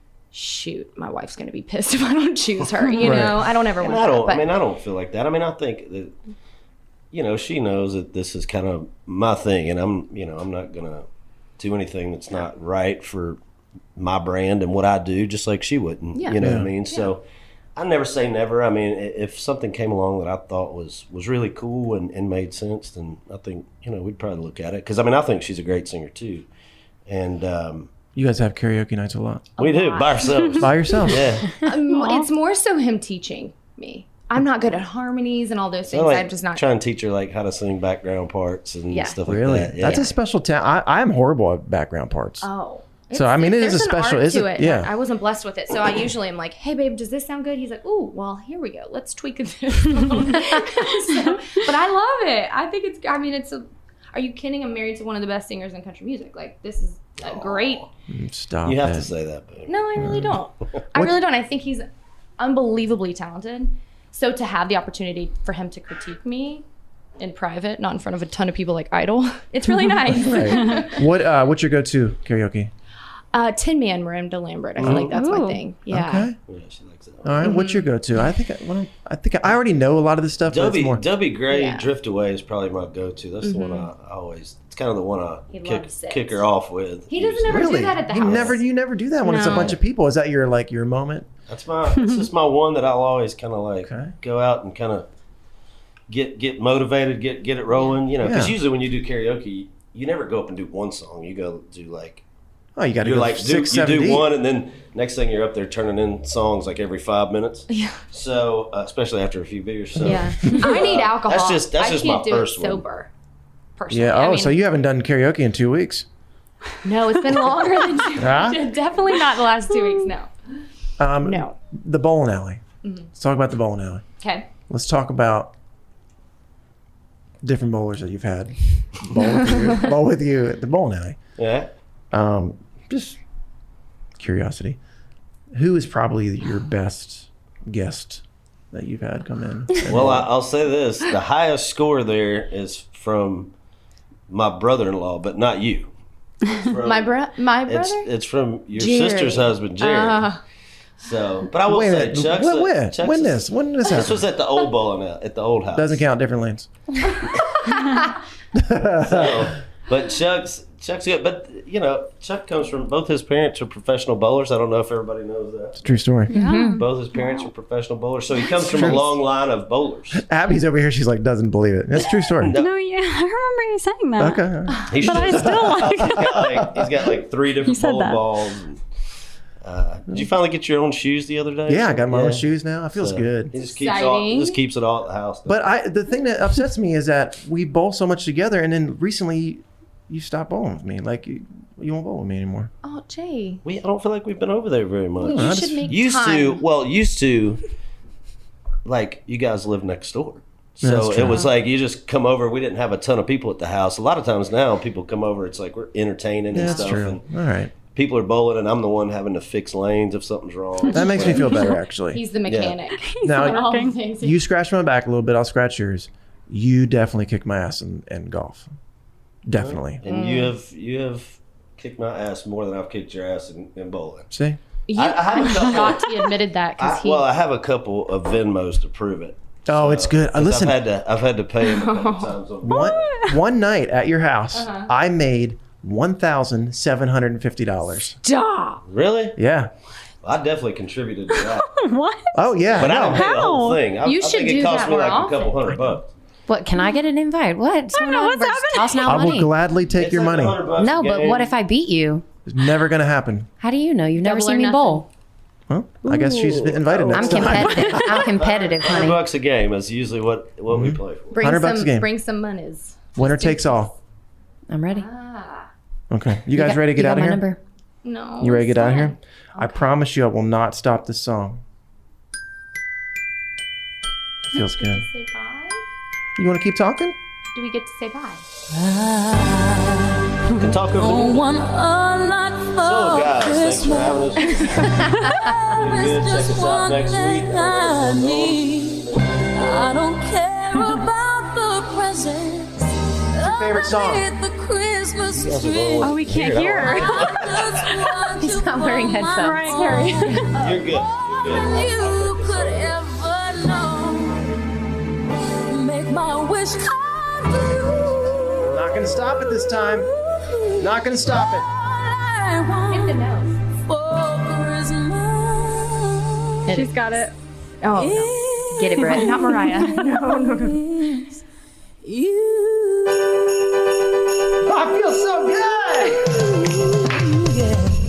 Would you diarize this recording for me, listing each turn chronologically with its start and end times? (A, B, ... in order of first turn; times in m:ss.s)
0:00.3-0:04.5 A
0:03.0-0:03.5 B
0:03.8-0:06.2 C
0:07.1-0:11.1 C
0:11.6-0:13.4 C
0:14.0-0:17.2 C
0:16.1-0:17.1 A
0:16.4-0:16.7 B
0:17.8-0:26.5 C
0:27.1-0:28.0 C
0:28.1-0:29.6 B
0:29.6-0:30.7 A
0:29.6-0:31.5 C
0:30.6-0:31.4 B
0:31.6-0:36.7 A
0:31.9-0:32.3 D
0:35.9-0:40.1 C
0:38.9-0:39.2 A
0:39.3-0:42.5 B
0:39.8-0:40.1 A
0:42.4-0:57.9 A
0:43.1-0:44.9 B
0:57.2-0:57.9 C
0:58.1-0:59.1 B
0:58.6-1:00.0 C
0:59.7-1:01.9 A
1:00.0-1:00.4 B
1:02.4-1:06.6 A
1:07.2-1:11.0 A
1:10.1-1:12.7 B
1:13.3-1:16.3 A
1:14.8-1:15.1 B
1:14.9-1:15.6 D
1:15.9-1:16.4 B
1:16.5-1:17.4 C
1:17.2-1:21.0 B
1:17.4-1:17.9 A
1:20.5-1:28.6 C
1:21.5-1:21.9 A
1:23.4-1:23.9 A
1:25.5-1:26.5 A
1:27.1-1:28.6 A
1:27.5-1:31.3 B
1:29.2-1:29.8 A
1:29.4-1:29.8 C
1:31.5-1:35.1 C
1:31.9-1:32.3 D
1:33.8-1:34.2 B
1:36.1-1:42.2 C
1:37.7-1:38.0 A
1:38.2-1:38.6 B
1:42.8-1:44.3 B
1:43.0-1:52.8 C
1:47.7-1:48.0 A
1:50.0-1:53.1 A
1:50.0-1:50.7 B
1:53.8-1:54.6 A
1:53.9-1:56.0 B
1:56.8-2:00.3 A
1:58.2-1:58.6 B
2:01.0-2:02.6 B
2:01.2-2:01.6 A
2:02.8-2:03.1 A
2:03.1-2:04.0 B
2:04.2-2:04.5 A
2:04.7-2:05.5 B
2:07.4-2:11.2 B
2:11.4-2:11.7 C
2:12.1-2:13.2 B
2:14.2-2:14.8 B
2:15.6-2:20.3 B
2:19.9-2:23.5 C
2:24.3-2:25.9 C
2:26.5-2:30.3 C
2:26.8-2:28.1 A
2:28.7-2:30.4 A
2:31.0-2:36.0 C
2:31.6-2:34.3 B
2:35.8-2:36.7 B
2:37.7-2:38.0 A
2:38.5-2:39.5 B
2:39.0-2:45.8 C
2:45.8-2:46.4 B
2:46.3-2:47.5 D
2:46.3-2:46.6 A
2:46.4-2:46.8 E
2:46.7-2:50.2 C
2:48.6-2:49.1 B
2:48.7-2:49.0 D
2:50.2-2:52.6 B
2:52.0-2:52.7 C
2:52.5-2:56.6 D
2:54.2-2:57.1 B
2:54.7-2:55.0 A
2:54.9-2:58.8 C
2:57.6-2:58.4 D
2:59.6-3:05.7 C
3:01.7-3:03.6 B
3:03.6-3:04.6 A
3:05.5-3:12.7 B
3:12.8-3:13.6 A
3:13.6-3:17.6 C
3:15.2-3:16.7 A
3:15.2-3:16.0 B
3:18.8-3:27.2 C
3:20.8-3:21.5 B
3:26.5-3:27.8 B
3:27.8-3:31.7 C
3:30.9-3:32.2 B
3:31.1-3:31.8 D
3:32.1-3:34.4 A
3:32.5-3:32.8 C
3:32.9-3:34.0 D
3:33.2-3:33.7 B
3:34.2-3:38.7 B
3:39.5-3:40.0 B
3:39.5-3:44.3 C
3:40.0-3:40.6 A
3:44.3-3:44.6 B
3:44.9-3:47.3 A
3:44.9-3:46.1 C
3:46.8-3:53.2 C
3:49.7-3:50.8 B
3:51.6-3:52.4 A
3:52.6-3:53.4 D
3:52.7-3:58.2 B
3:54.5-3:54.9 A
3:58.2-3:58.8 A
3:58.8-3:59.4 C
3:59.4-3:59.7 B
4:00.2-4:01.7 C
4:01.3-4:03.9 D
4:02.4-4:03.3 B
4:02.8-4:06.1 C
4:04.0-4:05.6 A
4:06.5-4:09.5 E
4:07.9-4:09.4 D
4:09.0-4:10.6 B
4:09.9-4:11.6 C
4:10.8-4:12.2 E
4:12.5-4:13.5 B
4:13.6-4:15.1 E
4:14.2-4:15.0 A
4:15.7-4:18.3 B
4:16.0-4:19.2 E
4:16.8-4:21.4 C
4:20.7-4:22.1 B
4:21.3-4:23.9 A
4:23.2-4:23.9 B
4:24.7-4:25.1 E
4:24.9-4:25.7 A
4:26.1-4:27.4 B
4:26.5-4:27.6 E
4:28.0-4:29.8 A
4:28.4-4:31.6 B
4:34.5-4:35.1 B
4:34.6-4:35.8 A
4:36.4-4:37.2 B
4:37.5-4:38.4 A
4:38.7-4:56.3 F
4:40.6-4:41.6 C
4:42.8-4:50.0 C
4:44.6-4:45.3 A
4:53.3-4:54.3 B
4:55.3-4:57.8 C
4:56.0-4:57.4 D
4:56.8-5:04.5 F
4:58.4-5:00.6 A
4:59.4-5:00.5 D
5:00.5-5:03.0 C
5:05.6-5:08.4 F
5:08.6-5:10.1 B
5:09.7-5:13.3 F
5:10.8-5:11.7 B
5:12.9-5:13.6 A
5:13.9-5:16.9 F
5:16.6-5:20.8 A
5:16.7-5:17.2 D
5:18.0-5:21.3 F
5:18.8-5:19.3 E
5:22.0-5:23.4 F
5:24.7-5:26.2 B